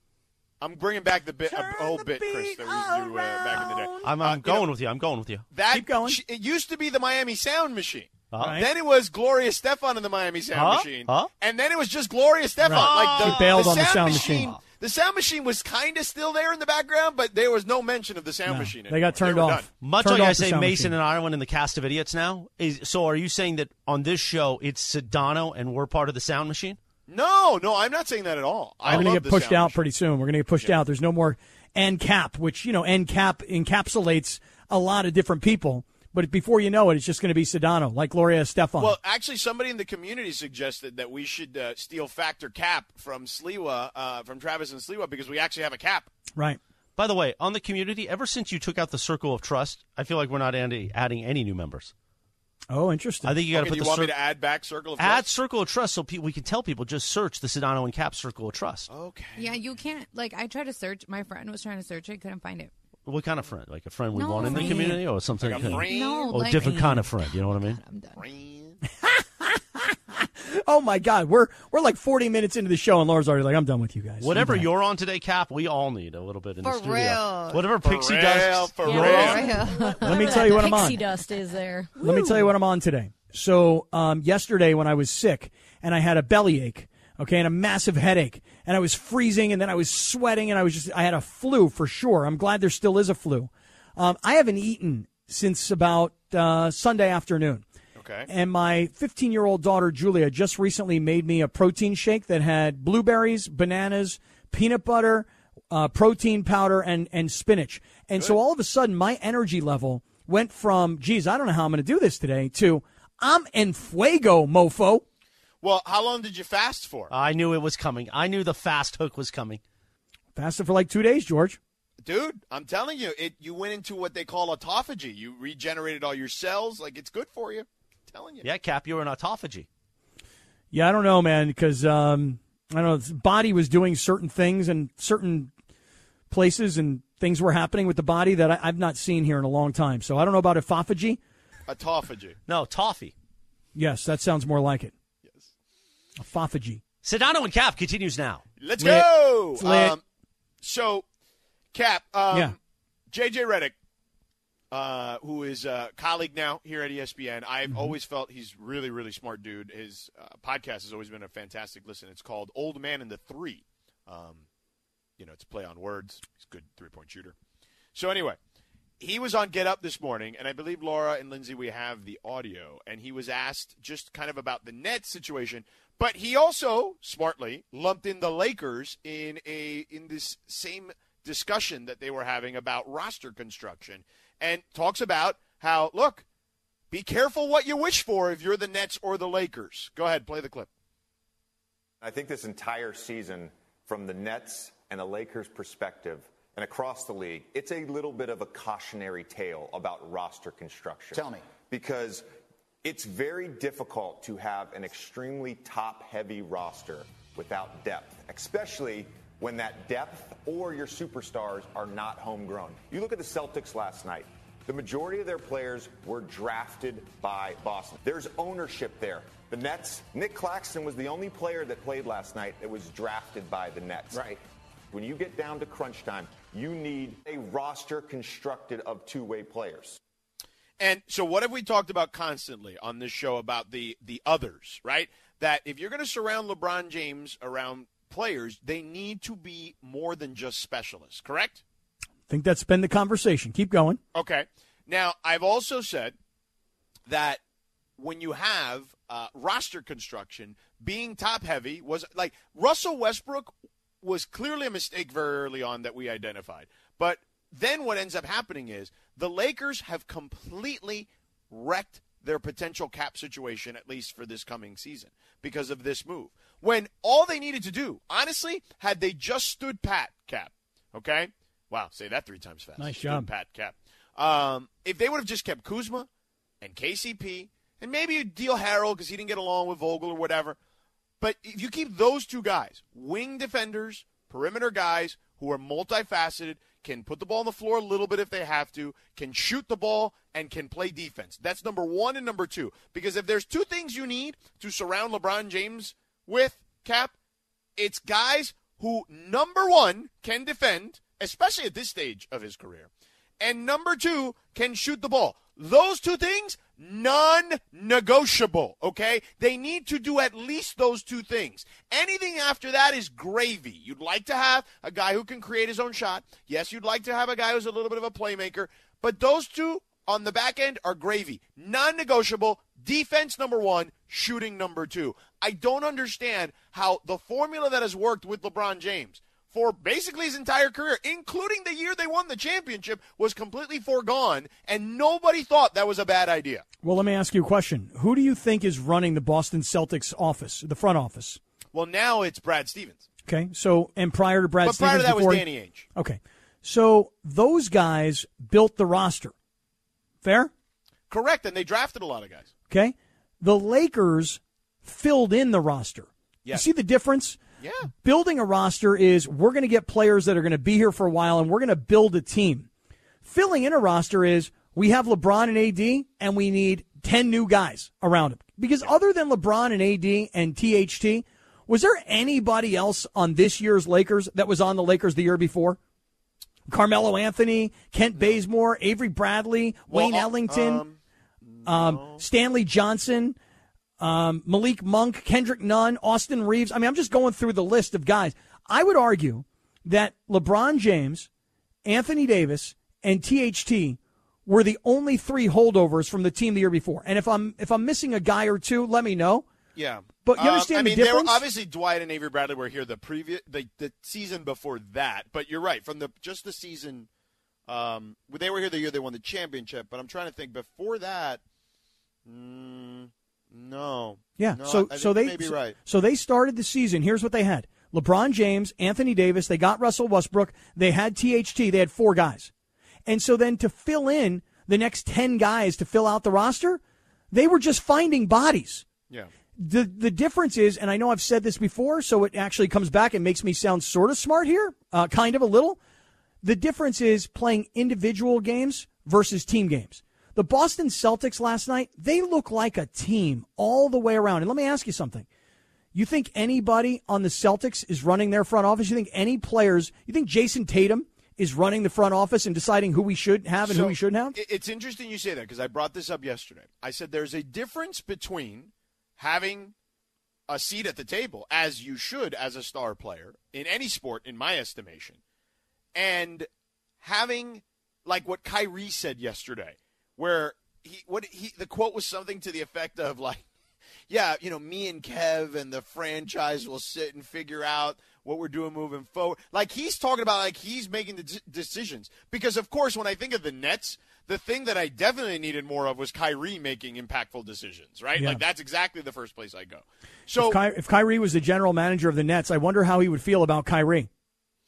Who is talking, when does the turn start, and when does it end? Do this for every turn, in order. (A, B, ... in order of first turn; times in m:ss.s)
0:00.6-0:04.7 A
0:01.5-0:04.1 B
0:04.0-0:05.4 C
0:05.5-0:19.6 A
0:05.7-0:06.2 B
0:08.3-0:08.6 C
0:10.5-0:11.3 C
0:12.7-0:14.5 B
0:12.7-0:14.6 C
0:18.5-0:20.9 B
0:19.8-0:26.8 C
0:27.1-0:29.8 A
0:28.8-0:38.9 B
0:38.8-0:46.1 A
0:47.0-0:51.9 C
0:52.7-0:53.4 B
0:53.2-0:54.1 C
0:53.5-0:55.3 A
0:55.0-0:58.9 C
0:58.9-0:59.5 A
0:59.4-1:02.7 D
1:03.0-1:07.8 C
1:04.1-1:05.0 D
1:04.5-1:05.0 B
1:05.4-1:06.4 A
1:05.8-1:08.2 D
1:06.7-1:07.0 B
1:08.2-1:08.8 A
1:09.0-1:14.7 B
1:14.2-1:19.5 C
1:16.6-1:17.6 D
1:17.8-1:19.6 A
1:18.8-1:22.4 E
1:18.9-1:20.7 D
1:20.0-1:21.0 B
1:22.0-1:37.6 B
1:38.0-1:38.3 A
1:38.3-1:55.0 B
1:55.6-1:57.1 A
1:57.1-1:59.6 C
2:00.3-2:01.6 B
2:02.0-2:08.5 A
2:08.4-2:09.7 C
2:10.7-2:15.5 B
2:16.3-2:21.2 B
2:21.7-2:22.4 A
2:22.5-2:23.1 C
2:23.7-2:24.9 B
2:26.2-2:26.8 B
2:27.0-2:28.4 C
2:28.6-2:30.0 A
2:28.8-2:30.0 B
2:30.6-2:31.0 A
2:31.7-2:32.6 A
2:33.1-2:33.7 A
2:34.7-2:44.4 A
2:37.7-2:37.9 B
2:45.2-2:47.3 A
2:47.9-2:48.4 A
2:49.0-3:06.2 A
3:06.9-3:10.7 A
3:12.0-3:22.2 F
3:22.8-3:44.4 F
3:44.9-3:50.0 F
3:50.8-4:01.6 A
4:02.3-4:04.0 B
4:04.1-4:06.1 A
4:07.1-4:07.4 A
4:08.0-4:13.5 A
4:14.0-4:36.1 A
4:32.8-4:33.3 B
4:36.6-4:40.6 A
4:41.2-4:57.1 A
4:57.8-5:02.9 A
5:03.4-5:36.6 A
5:36.8-5:41.4 B
5:41.7-5:43.0 A
5:43.2-5:45.4 B
5:44.6-5:45.8 A
5:46.0-5:49.3 B
5:50.2-5:50.5 B
5:51.1-5:52.5 A
5:52.7-5:57.4 B
5:57.6-5:57.9 A
5:58.0-6:02.7 B
6:03.2-6:15.8 B
6:16.7-6:20.8 B
6:18.2-6:18.4 A
6:19.9-6:22.2 A
6:21.6-6:23.4 B
6:24.0-6:31.3 B
6:31.8-6:39.4 B
6:39.8-6:47.1 A
6:40.2-6:41.4 B
6:47.7-6:51.4 A
6:52.2-6:55.8 A
6:54.4-7:02.5 B
7:03.0-7:06.8 B
7:07.3-7:08.8 B
7:09.6-7:15.8 B
7:16.4-7:25.2 B
7:25.9-7:34.4 B
7:33.6-7:39.7 A
7:40.5-7:45.2 A
7:45.9-7:46.5 A
7:47.0-7:53.4 A
7:54.1-8:10.6 A
8:10.4-8:14.1 B